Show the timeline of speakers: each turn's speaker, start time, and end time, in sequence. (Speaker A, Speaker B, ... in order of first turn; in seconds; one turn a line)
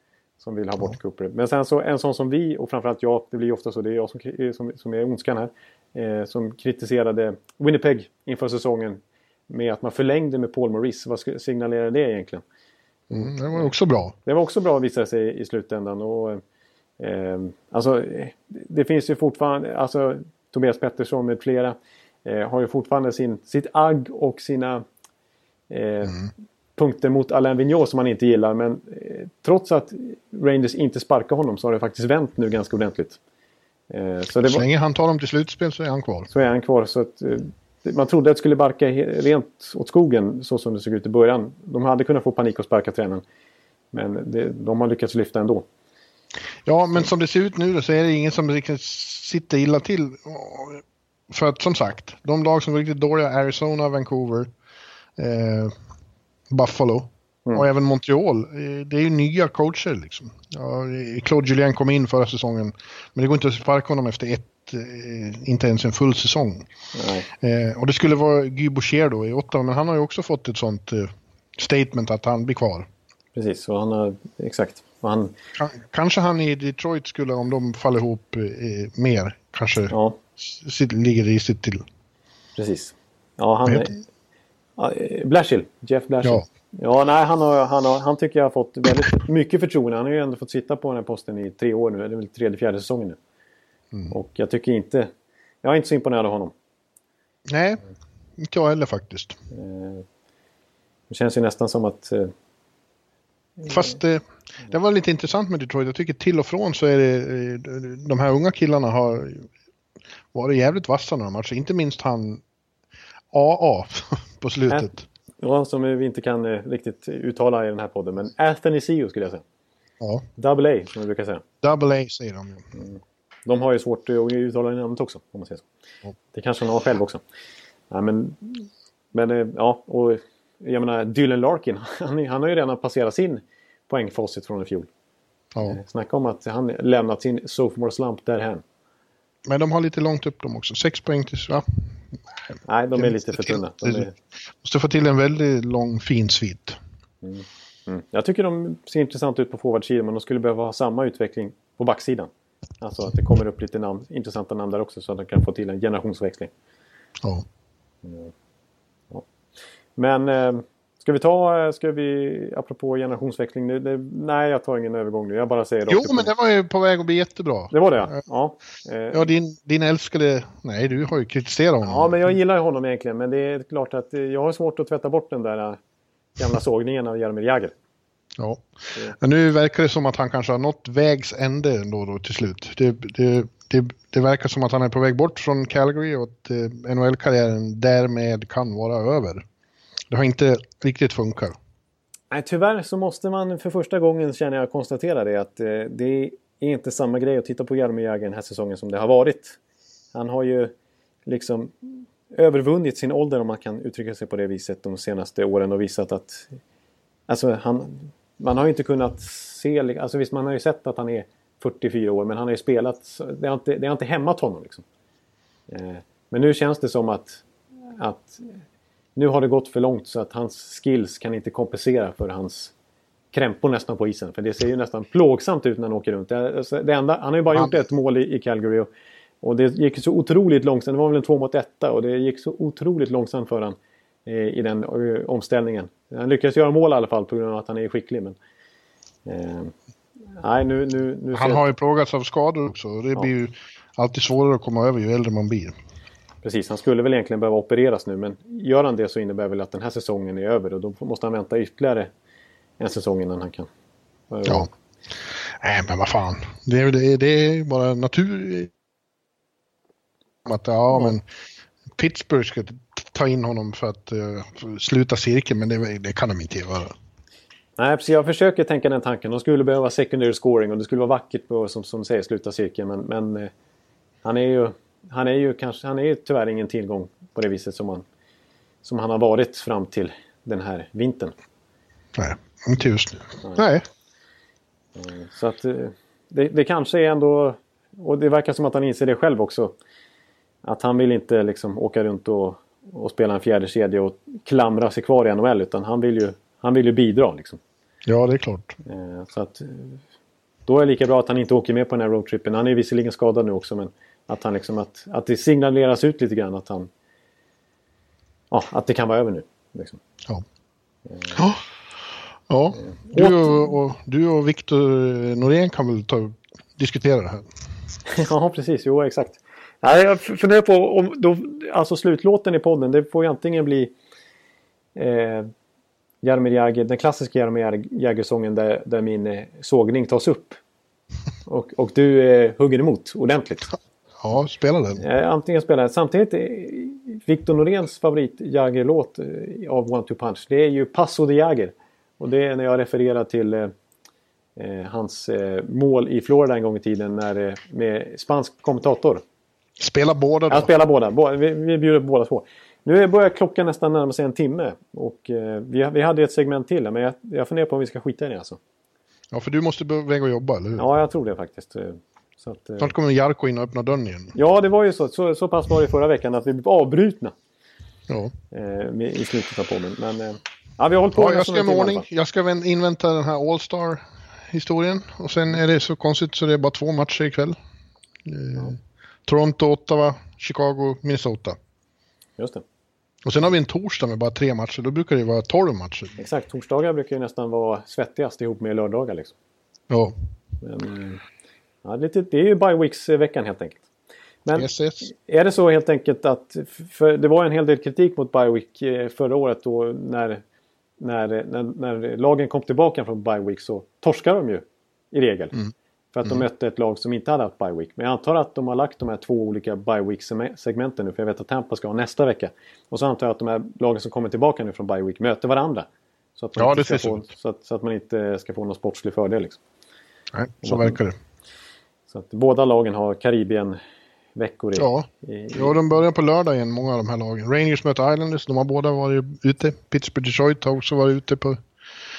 Speaker A: 0.4-12.4
Speaker B: 13.1-14.2
Speaker A: 13.1-13.7
Speaker A: 14.2-16.4
Speaker A: 17.0-24.8
Speaker A: 25.7-26.2
Speaker A: 26.8-33.2
Speaker A: 33.9-34.6
Speaker B: 34.5-36.3
Speaker A: 36.3-43.2
Speaker A: 43.9-45.7
Speaker B: 46.7-54.5
Speaker B: 55.2-55.8
Speaker B: 56.5-66.7
Speaker A: 66.9-67.3
Speaker B: 67.3-72.9
Speaker A: 73.3-75.3
Speaker B: 75.6-81.8
Speaker A: 79.9-80.2
Speaker A: 82.6-84.0
Speaker A: 84.8-93.2
Speaker A: 94.1-95.1
Speaker A: 95.6-96.5
Speaker B: 97.5-97.8
Speaker B: 98.4-99.4
Speaker A: 99.5-100.0
Speaker A: 101.1-102.3
Speaker B: 103.7-109.5
Speaker B: 110.3-112.4
Speaker B: 113.3-115.0
Speaker A: 115.4-119.4
Speaker A: 120.4-121.4
Speaker B: 121.6-122.7
Speaker A: 122.7-125.7
Speaker A: 126.3-127.2
Speaker A: 127.9-134.9
Speaker A: 135.6-138.6
Speaker B: 139.5-144.1
Speaker A: 142.7-144.1
Speaker B: 144.6-146.8
Speaker A: 147.2-152.3
Speaker A: 152.8-156.5
Speaker A: 158.0-158.3
Speaker A: 160.0-166.3
Speaker B: 165.9-167.7
Speaker A: 167.7-169.3
Speaker B: 169.1-172.2
Speaker A: 171.8-175.8
Speaker A: 176.4-177.7
Speaker B: 178.4-189.4
Speaker B: 190.1-191.6
Speaker A: 192.3-199.6
Speaker A: 200.1-200.7
Speaker A: 201.3-206.6
Speaker A: 207.3-214.8
Speaker A: 215.7-217.4
Speaker A: 218.0-218.6
Speaker A: 219.2-222.7
Speaker A: 223.3-228.9
Speaker A: 229.4-238.4
Speaker A: 239.2-239.7
Speaker A: 240.4-241.6
Speaker B: 241.3-245.7
Speaker A: 246.4-252.1
Speaker A: 252.8-253.7
Speaker A: 254.3-254.7
Speaker B: 255.5-258.7
Speaker B: 260.4-261.2
Speaker B: 261.9-266.9
Speaker A: 267.8-273.5
Speaker A: 274.2-278.1
Speaker A: 278.8-281.3
Speaker B: 282.1-283.8
Speaker A: 284.9-289.8
Speaker A: 290.6-297.6
Speaker B: 298.1-298.8
Speaker A: 298.9-300.0
Speaker A: 300.7-306.9
Speaker A: 308.5-310.0
Speaker A: 311.1-311.4
Speaker B: 311.3-311.6
Speaker B: 312.5-317.5
Speaker A: 312.8-313.6
Speaker A: 318.1-323.9
Speaker A: 324.9-325.5
Speaker A: 326.2-330.6
Speaker A: 331.5-333.8
Speaker B: 334.2-335.1
Speaker A: 335.0-343.7
Speaker A: 344.6-349.2
Speaker B: 349.8-350.7
Speaker A: 350.5-358.6
Speaker B: 359.3-360.9
Speaker A: 360.8-362.9
Speaker B: 362.8-364.4
Speaker A: 364.4-367.3
Speaker B: 368.1-368.3
Speaker A: 368.5-372.1
Speaker B: 371.1-377.6
Speaker B: 378.2-381.6
Speaker A: 382.4-382.6
Speaker B: 383.2-386.2
Speaker A: 386.2-389.3
Speaker B: 389.9-390.2
Speaker A: 390.6-391.2
Speaker A: 391.8-393.8
Speaker A: 394.4-400.4
Speaker B: 394.6-395.1
Speaker A: 401.0-405.6
Speaker A: 406.1-419.6
Speaker B: 416.6-417.2
Speaker B: 420.3-421.1
Speaker A: 420.6-421.0
Speaker A: 422.1-423.8
Speaker A: 424.4-425.8
Speaker B: 424.8-431.6